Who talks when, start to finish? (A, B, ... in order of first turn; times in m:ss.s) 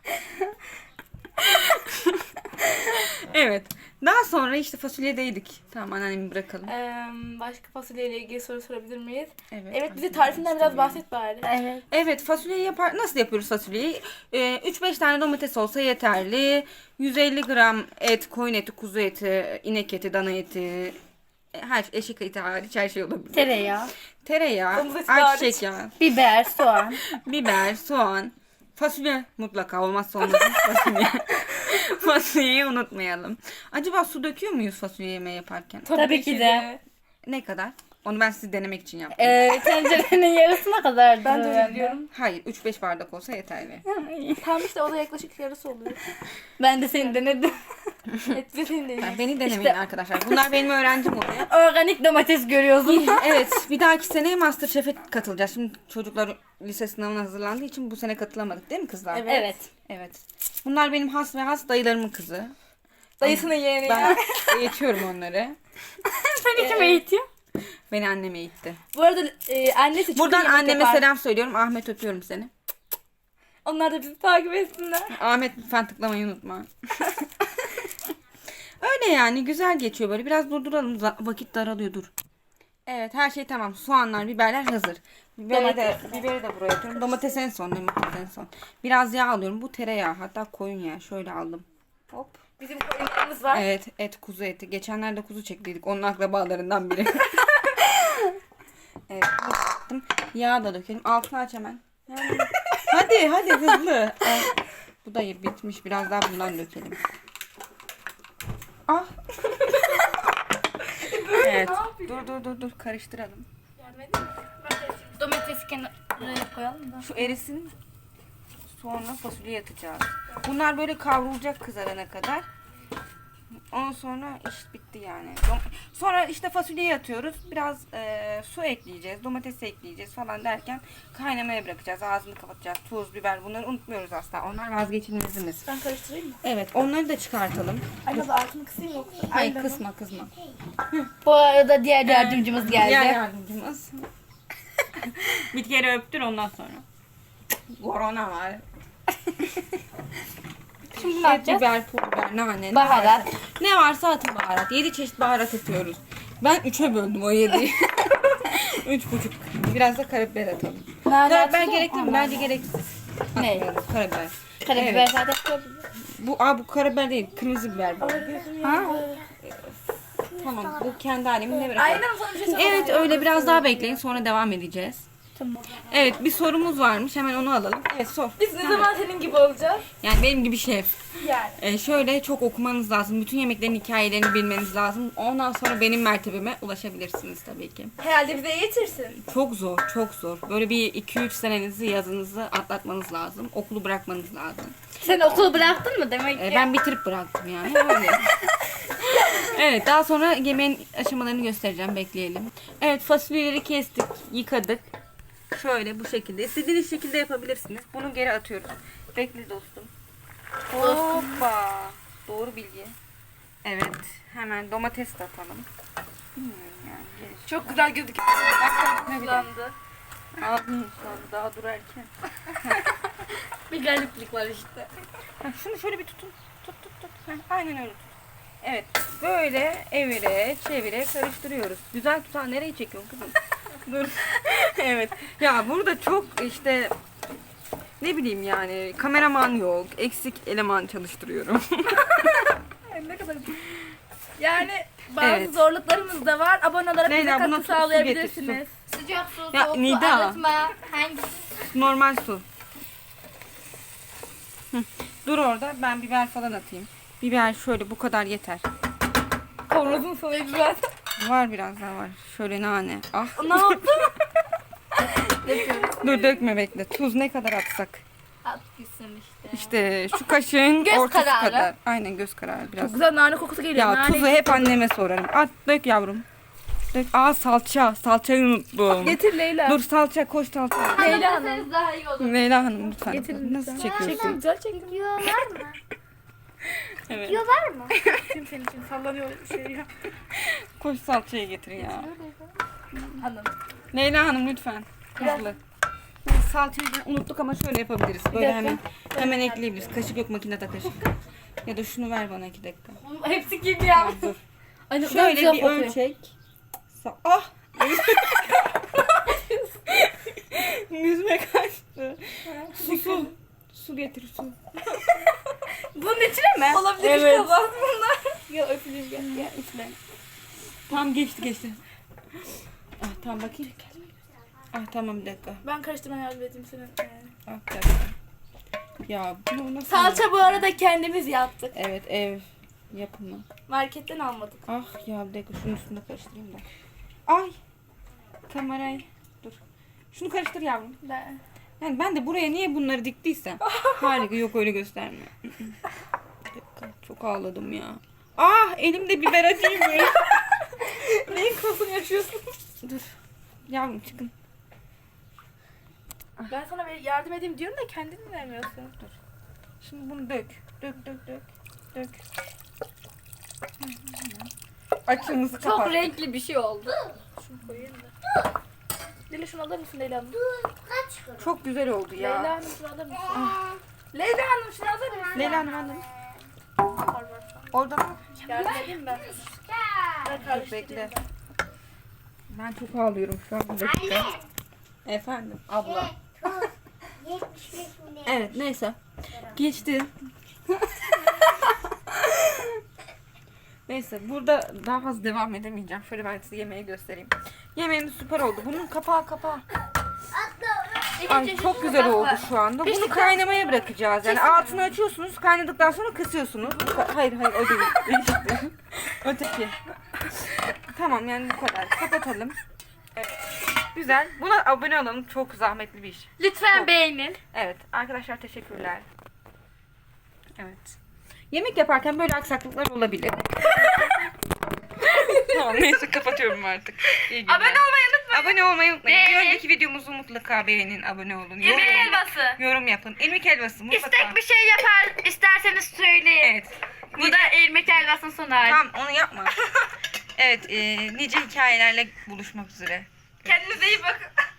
0:01.4-0:06.7 A
0:06.6-0:11.5 B
0:09.5-0:11.0 A
0:11.4-0:11.8 C
0:11.9-0:21.0 A
0:21.5-0:23.7 A
0:23.3-0:23.9 C
0:24.2-0:26.0 A
0:24.7-0:25.6 B
0:26.0-0:27.0 C
0:27.0-0:35.9 A
0:35.8-0:36.8 B
0:35.9-0:36.7 C
0:37.2-0:39.5 A
0:39.1-0:42.0 C
0:41.2-0:42.1 B
0:42.1-0:43.8 A
0:43.8-0:44.4 C
0:44.4-0:46.0 B
0:46.6-0:47.6 C
0:48.3-0:49.3 B
0:49.0-0:51.5 A
0:49.4-0:49.8 C
0:51.3-0:53.3 C
0:52.8-0:59.3 A
0:59.1-0:59.6 B
0:59.2-0:59.7 C
0:59.9-1:02.5 A
1:03.2-1:04.7 B
1:03.2-1:05.6 A
1:06.0-1:07.2 C
1:06.6-1:07.0 B
1:07.9-1:08.8 A
1:08.9-1:11.0 B
1:10.1-1:12.5 A
1:13.6-1:15.1 B
1:15.1-1:17.3 A
1:18.8-1:22.1 A
1:22.9-1:32.4 A
1:25.5-1:26.2 B
1:32.6-1:33.6 B
1:33.5-1:38.3 A
1:39.1-1:47.0 A
1:48.9-1:49.1 A
1:50.9-1:52.3 B
1:51.3-1:53.5 A
1:53.8-1:55.2 B
1:55.2-1:56.4 C
1:56.1-1:57.2 B
1:57.0-1:57.7 A
1:58.7-2:02.4 A
2:03.7-2:15.7 A
2:15.6-2:16.4 B
2:16.4-2:18.3 A
2:18.0-2:19.8 B
2:19.3-2:20.3 A
2:21.2-2:23.2 C
2:22.0-2:24.0 A
2:25.1-2:26.8 A
2:27.7-2:28.6 A
2:29.4-2:29.8 A
2:30.9-2:45.1 A
2:31.0-2:31.6 C
2:31.1-2:31.4 B
2:32.7-2:33.2 C
2:41.0-2:42.5 C
2:41.1-2:41.6 B
2:43.4-2:43.7 C
2:44.6-2:45.8 C
2:46.0-2:48.5 A
2:48.0-2:49.3 B
2:48.6-2:49.1 C
2:49.4-2:55.1 A
2:51.7-2:54.0 B
2:55.4-2:56.0 C
2:55.8-2:58.9 A
2:58.4-2:59.9 B
3:00.0-3:00.9 A
3:01.2-3:01.6 B
3:01.6-3:07.9 A
3:08.0-3:09.2 B
3:09.3-3:14.8 A
3:15.0-3:16.7 C
3:15.4-3:15.7 B
3:16.3-3:18.4 A
3:19.0-3:24.9 A
3:25.5-3:29.9 A
3:30.7-3:33.0 A
3:30.8-3:31.4 B
3:33.6-3:35.7 A
3:36.4-3:37.9 A
3:37.5-3:39.7 B
3:38.4-3:39.5 A
3:40.4-3:42.9 A
3:43.7-3:44.9 C
3:45.4-3:56.9 A
3:58.0-4:02.5 A
4:02.8-4:03.8 B
4:04.4-4:08.7 B
4:05.2-4:05.5 A
4:07.0-4:08.6 A
4:08.9-4:11.5 C
4:09.5-4:10.5 A
4:11.6-4:12.4 A
4:14.7-4:18.6 A
4:19.7-4:20.9 B
4:21.2-4:23.9 A
4:23.4-4:24.2 B
4:25.1-4:26.0 B
4:25.8-4:28.0 A
4:28.5-4:29.5 C
4:28.8-4:29.6 B
4:29.5-4:33.0 A
4:30.8-4:31.7 B
4:32.8-4:34.8 B
4:33.7-4:36.2 A
4:36.9-4:41.2 A
4:39.0-4:39.8 B
4:40.9-4:42.4 C
4:41.0-4:41.7 B
4:42.2-4:44.4 A
4:43.0-4:45.3 B
4:43.7-4:45.8 C
4:47.0-4:47.4 A
4:47.2-4:47.9 C
4:47.9-4:48.2 A
4:48.1-4:49.9 B
4:50.3-4:52.1 A
4:51.8-4:52.5 C
4:53.2-4:53.5 B
4:53.9-4:55.6 A
4:56.2-5:01.1 A
4:58.3-4:58.8 C
4:59.1-4:59.9 B
5:01.6-5:03.0 A
5:03.1-5:04.3 C
5:03.9-5:04.4 A
5:04.9-5:06.0 C
5:05.0-5:06.3 A
5:06.9-5:09.1 A
5:08.9-5:09.7 B
5:09.9-5:15.2 A
5:12.5-5:13.3 B
5:15.1-5:19.9 B
5:16.1-5:17.6 C
5:19.2-5:19.5 A
5:20.9-5:21.8 A
5:23.0-5:24.1 A
5:24.7-5:25.6 A
5:25.6-5:27.3 B
5:27.5-5:28.1 A
5:29.1-5:30.7 A
5:29.9-5:31.7 B
5:31.7-5:33.4 A
5:33.7-5:34.6 B
5:34.7-5:36.7 A
5:37.3-5:37.6 A
5:38.5-5:39.6 A
5:40.1-5:41.0 A
5:41.0-5:41.4 B
5:41.8-5:45.8 A
5:43.7-5:44.2 B
5:46.5-5:50.4 A
5:50.6-5:52.5 B
5:52.8-5:53.2 A
5:53.7-5:54.3 A
5:56.5-5:58.9 B
5:59.8-6:02.2 A
6:03.8-6:04.5 A
6:05.1-6:06.2 A
6:05.6-6:07.2 C
6:07.4-6:08.1 B
6:09.3-6:10.4 B
6:10.4-6:11.3 C
6:11.4-6:12.5 A
6:12.2-6:13.6 B
6:13.3-6:13.7 A
6:14.1-6:15.7 B
6:15.3-6:16.1 A
6:17.0-6:17.7 B
6:17.7-6:18.5 A
6:18.3-6:19.5 B
6:18.9-6:20.2 C
6:20.2-6:21.2 B
6:20.4-6:21.2 A
6:22.5-6:24.4 A
6:25.0-6:26.7 A
6:27.2-6:28.1 C
6:28.2-6:30.1 A
6:30.8-6:32.7 A
6:33.9-6:39.6 A
6:41.2-6:43.5 B
6:41.2-6:52.6 A
6:44.2-6:44.9 B
6:53.9-6:56.9 A
6:56.4-6:57.4 C
6:57.5-6:59.0 A
7:00.6-7:01.0 A
7:01.5-7:04.1 A
7:05.0-7:14.4 A
7:05.5-7:05.9 B
7:07.4-7:08.6 B
7:09.0-7:09.6 C
7:11.6-7:12.6 B
7:11.6-7:11.9 C
7:13.9-7:16.5 C
7:16.4-7:17.6 A
7:17.1-7:18.8 C
7:18.6-7:19.6 A
7:20.4-7:23.7 A
7:23.4-7:24.3 B